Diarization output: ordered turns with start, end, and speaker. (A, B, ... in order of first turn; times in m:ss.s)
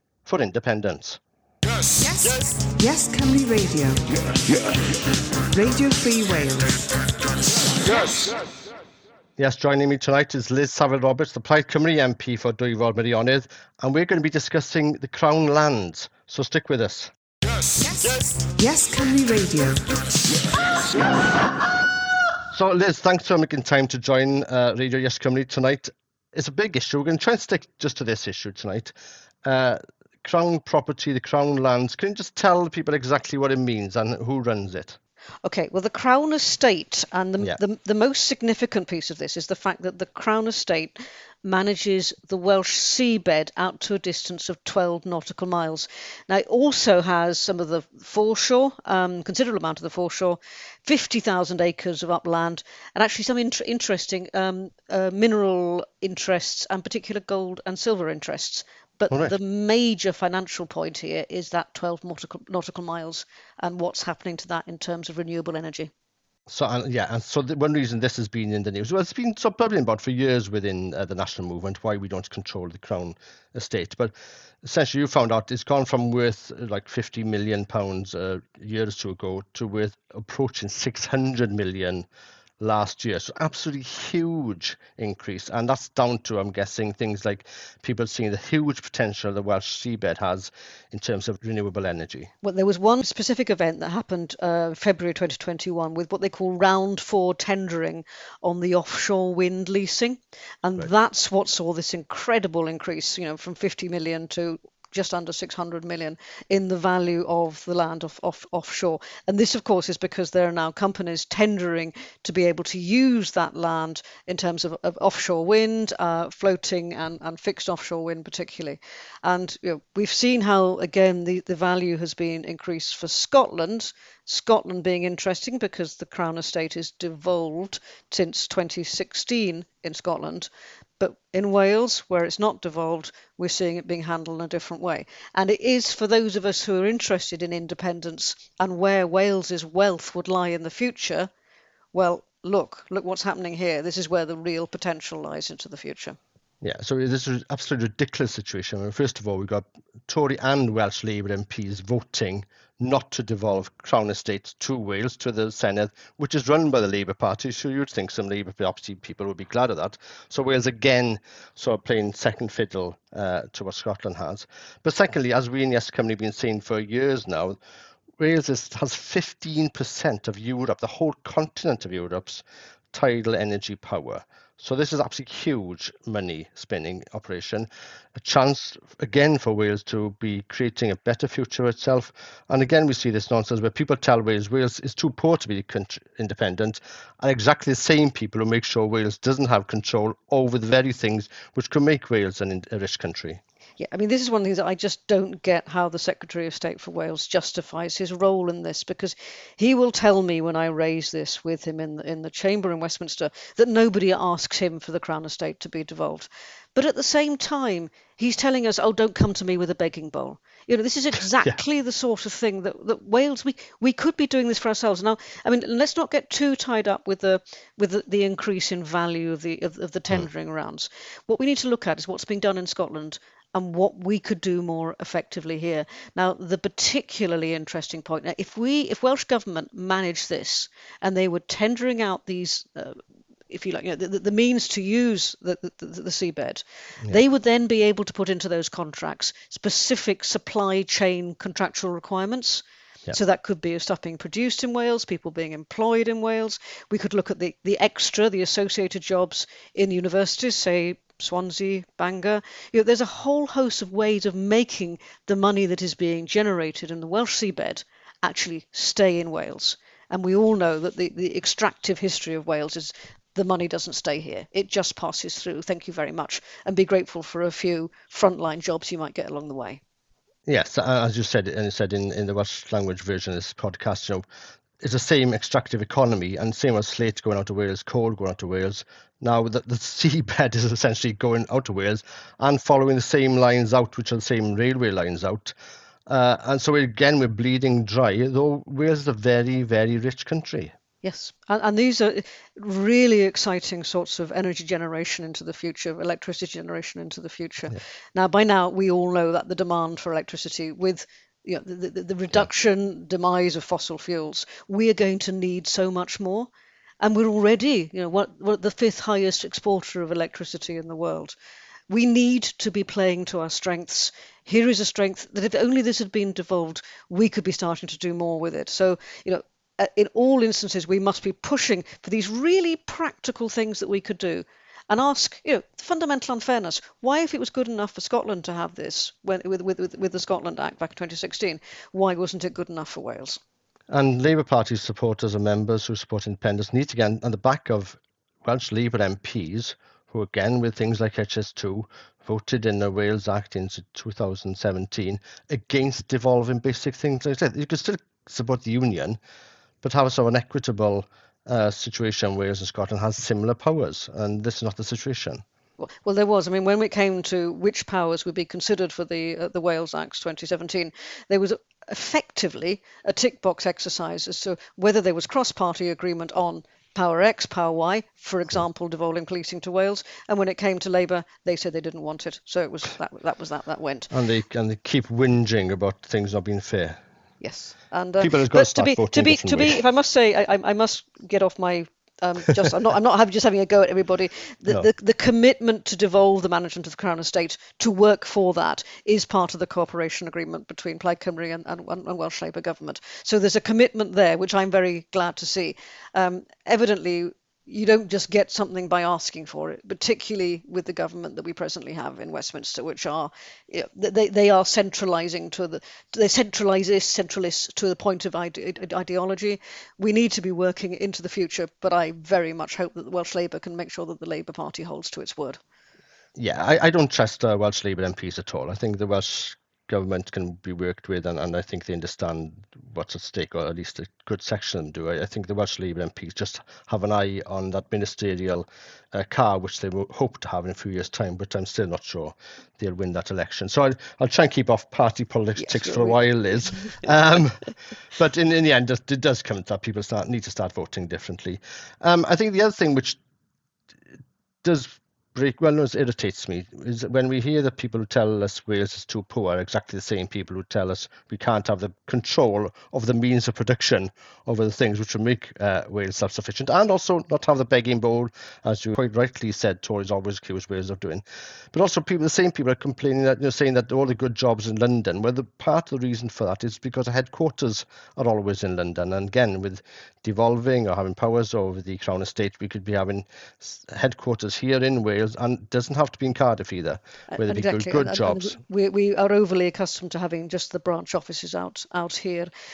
0:00.2-0:01.2 A
0:02.4-0:04.1 B
0:05.5-0:06.9 B
0:09.4-0:17.1 A
0:18.4-0:19.9 B
0:22.5-0:28.9 A
0:29.4-0:35.0 A
0:35.4-1:05.9 C
1:06.5-1:22.1 A
1:22.6-1:32.3 A
1:32.4-2:10.5 C
2:11.0-2:21.3 C
2:21.9-2:26.2 C
2:26.6-2:47.6 A
2:48.2-3:13.4 A
3:13.8-4:29.8 C
4:30.5-4:34.2 A
4:34.8-4:45.5 A
4:46.1-4:50.7 A
4:51.0-5:06.5 C
5:07.0-5:11.4 C
5:11.9-5:33.4 C
5:33.9-5:49.2 A
5:49.8-5:55.4 A
5:55.8-6:14.1 C
6:14.1-6:17.0 A
6:17.4-6:55.6 C
6:18.2-6:19.8 A
6:56.4-7:23.2 A
7:15.6-7:16.2 C
7:24.6-7:58.6 A
7:57.3-8:02.5 C